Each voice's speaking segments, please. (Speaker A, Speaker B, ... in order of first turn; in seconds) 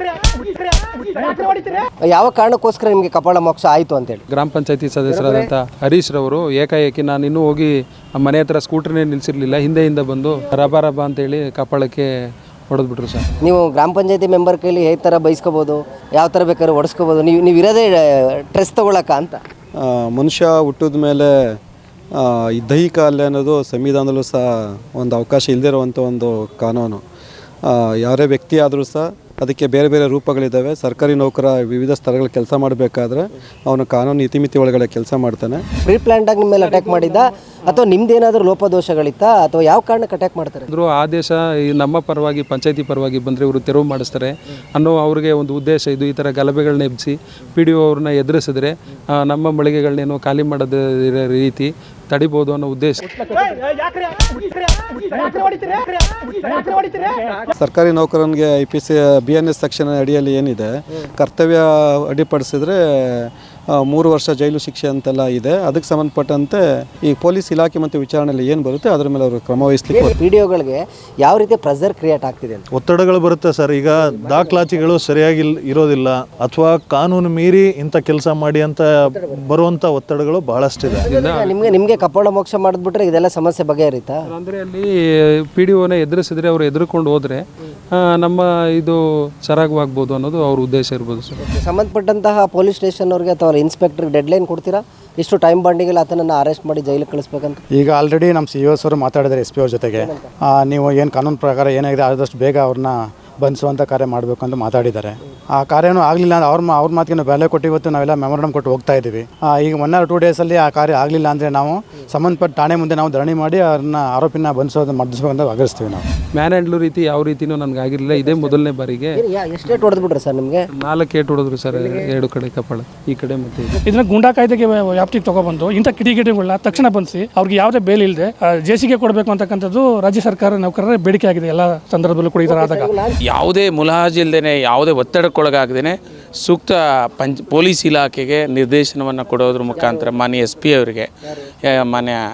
Speaker A: 2.0-4.2, 5.1-5.5, 13.4-19.4, 35.8-40.7, 69.9-72.7, 81.0-84.3, 91.4-97.6, 100.0-100.3, 118.2-118.5, 119.1-120.7, 121.7-122.1, 132.4-133.2
Speaker B: 4.3-12.1, 12.7-13.3, 36.6-37.8, 40.7-53.2, 80.9-81.8, 84.2-91.4, 116.3-119.2, 120.8-123.7
Speaker C: 19.8-21.6, 22.1-27.0, 27.6-35.7, 57.5-70.1
Speaker D: 72.7-81.1
Speaker E: 97.7-116.1
Speaker F: 123.8-132.9
Speaker G: 133.2-141.1, 141.7-142.2